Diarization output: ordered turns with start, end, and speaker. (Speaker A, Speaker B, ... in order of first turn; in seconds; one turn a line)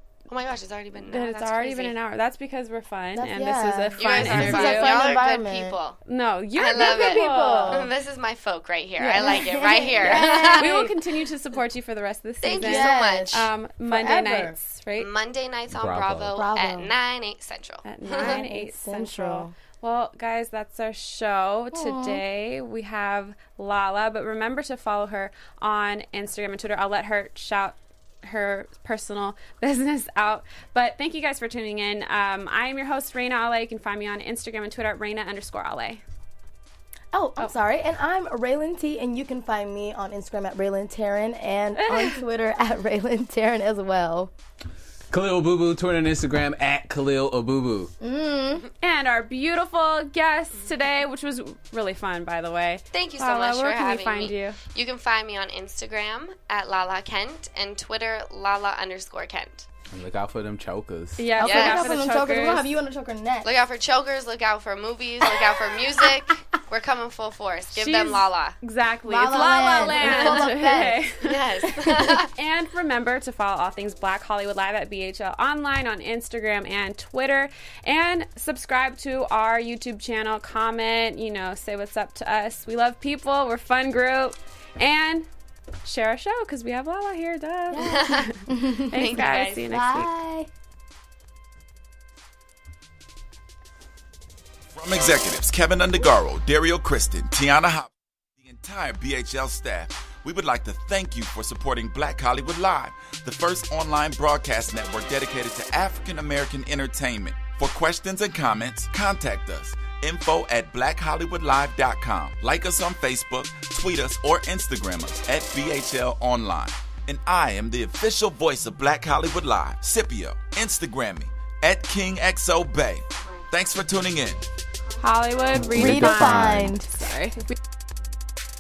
Speaker A: 0.3-1.9
Speaker B: 1.0-5.0
Speaker C: 3.2-5.8
Speaker A: 4.0-6.0
Speaker B: 6.1-7.8
Speaker A: 6.6-10.9
Speaker C: 6.8-7.9
Speaker C: 9.0-10.8
Speaker B: 10.1-15.1
Speaker A: 12.4-13.5
Speaker C: 12.6-14.6
Speaker A: 15.0-18.4
Speaker D: 15.7-16.4
Speaker C: 16.4-16.9
Speaker B: 17.9-36.0
Speaker C: 18.1-19.5
Speaker C: 21.7-22.2
Speaker C: 37.1-44.3
Speaker B: 41.8-42.2
Speaker D: 45.1-47.9
Speaker C: 48.0-48.7
Speaker B: 48.8-54.6
Speaker A: 52.9-59.7
Speaker D: 59.9-61.2
Speaker B: 61.2-62.7
Speaker C: 61.4-63.5
Speaker A: 61.4-62.1
Speaker A: 63.4-68.6
Speaker B: 67.8-71.4
Speaker C: 69.1-71.0
Speaker A: 69.8-70.4
Speaker A: 71.2-72.3
Speaker C: 71.8-72.2
Speaker B: 72.3-85.3
Speaker B: 85.8-90.1
Speaker C: 87.7-90.5
Speaker A: 87.8-88.3
Speaker A: 88.9-89.7
Speaker E: 94.7-124.4
Speaker B: 125.0-127.4
Speaker D: 125.5-126.8
Speaker C: 125.7-127.6